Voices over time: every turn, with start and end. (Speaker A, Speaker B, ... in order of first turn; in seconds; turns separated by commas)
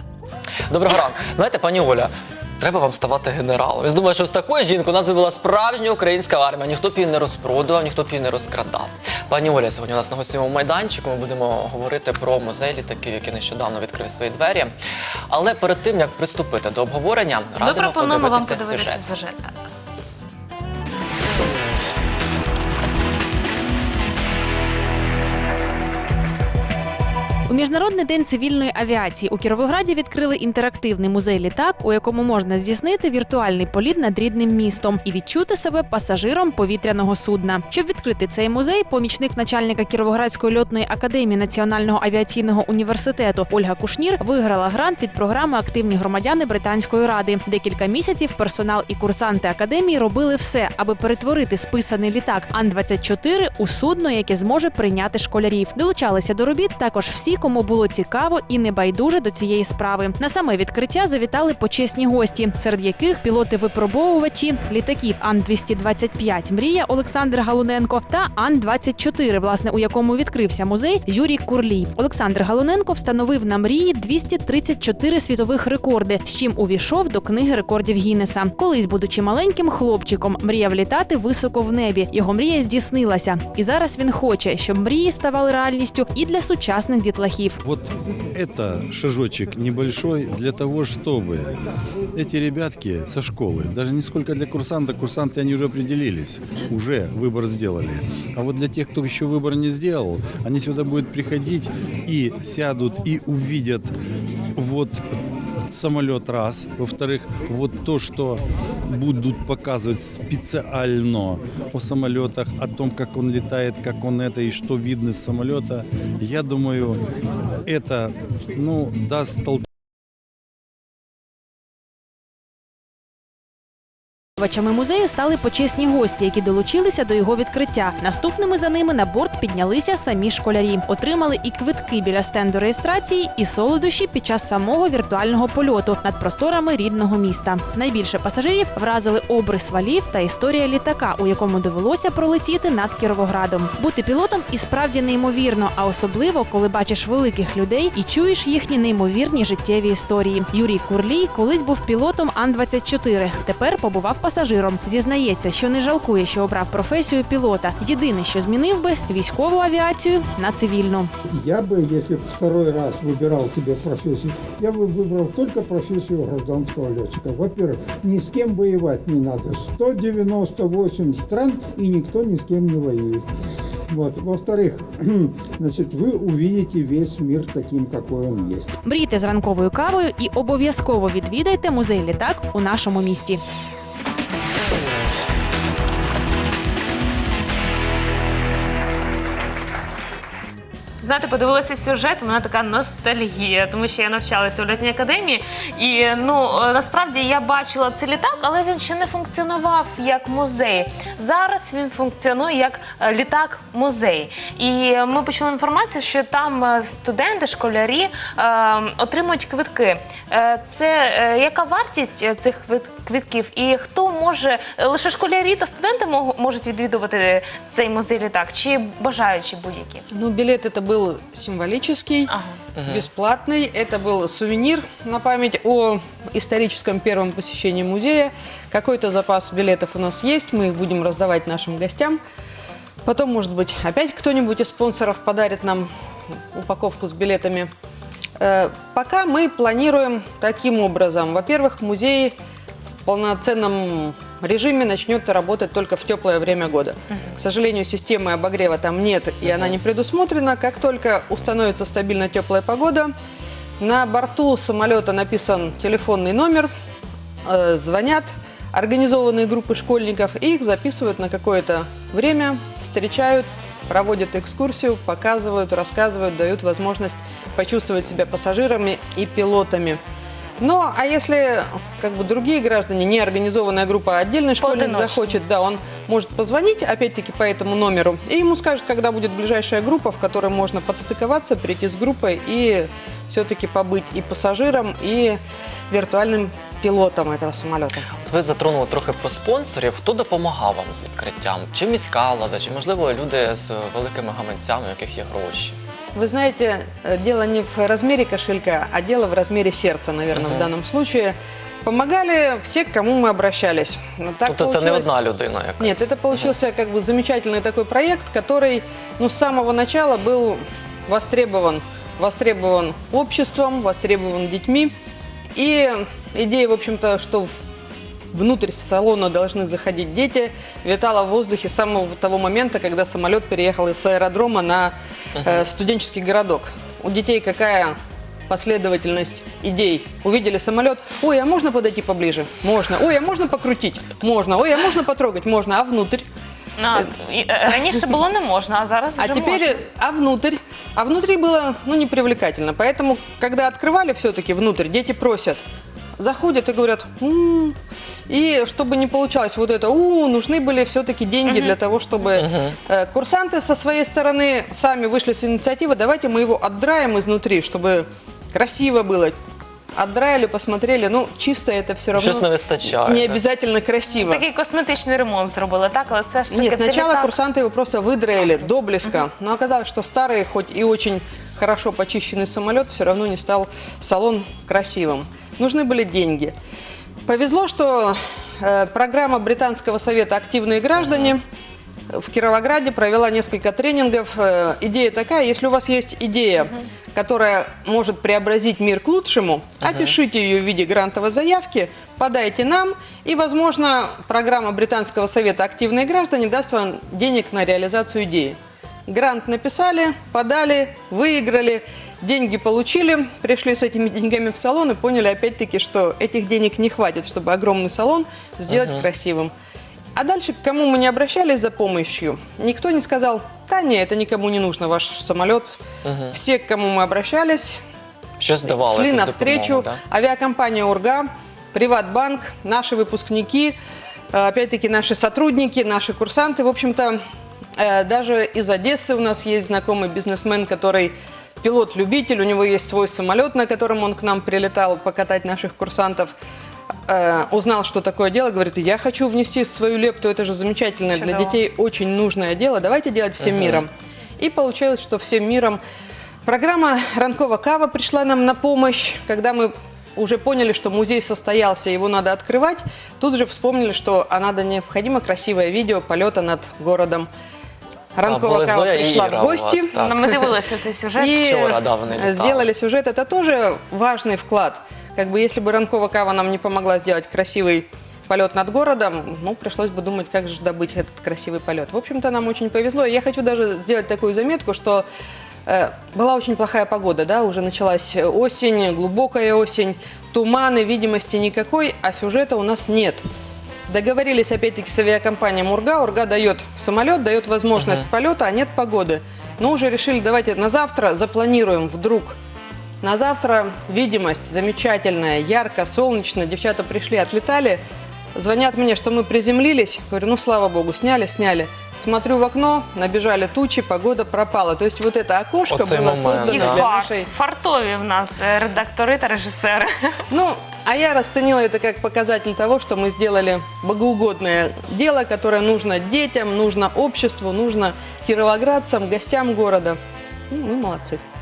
Speaker A: 0.7-14.7, Speaker A: 15.3-19.1, Speaker B: 17.6-19.7, Speaker C: 27.5-87.6, Speaker D: 87.7-91.5, Speaker D: 92.2-103.9, Speaker D: 104.6-105.0, Speaker D: 105.7-117.0, Speaker D: 117.7-119.6, Speaker C: 124.4-161.1, Speaker E: 161.3-173.2, Speaker E: 173.9-178.8, Speaker C: 178.8-183.4, Speaker B: 191.0-220.1, Speaker F: 220.1-222.3, Speaker B: 222.3-222.7, Speaker A: 222.8-223.0, Speaker F: 222.8-232.2, Speaker F: 233.1-235.9, Speaker F: 236.5-237.7, Speaker F: 238.4-242.3, Speaker F: 243.1-253.1, Speaker F: 253.8-256.7, Speaker F: 257.4-270.0, Speaker F: 270.6-285.4, Speaker B: 274.6-275.3, Speaker F: 285.9-288.1, Speaker A: 288.2-295.8, Speaker F: 296.1-305.1, Speaker A: 300.4-300.7, Speaker A: 304.5-306.5, Speaker F: 305.8-314.9, Speaker F: 315.6-317.5, Speaker F: 318.3-327.9, Speaker F: 328.5-336.3, Speaker B: 336.8-339.8, Speaker F: 337.7-338.1, Speaker F: 339.2-345.6, Speaker F: 346.2-347.8, Speaker F: 348.3-359.4, Speaker A: 352.3-352.8, Speaker F: 359.9-364.4, Speaker A: 362.1-363.4, Speaker B: 364.2-367.3, Speaker F: 366.5-376.5, Speaker F: 377.3-381.4, Speaker F: 382.1-409.5, Speaker A: 408.7-409.0, Speaker F: 410.2-415.8, Speaker A: 416.0-416.4, Speaker F: 416.3-417.8, Speaker A: 418.4-420.0, Speaker F: 418.6-423.8, Speaker F: 424.3-427.2, Speaker F: 427.8-436.3, Speaker F: 437.1-445.8, Speaker B: 441.1-441.5, Speaker F: 446.4-457.3, Speaker F: 458.1-460.5, Speaker A: 458.2-460.3, Speaker B: 460.1-461.3, Speaker F: 461.1-475.1, Speaker A: 461.3-462.7, Speaker F: 475.7-483.2, Speaker F: 483.9-492.4, Speaker F: 493.0-497.8, Speaker F: 498.4-507.3, Speaker A: 505.7-506.9, Speaker B: 506.8-509.9, Speaker F: 510.3-520.0, Speaker F: 520.5-521.2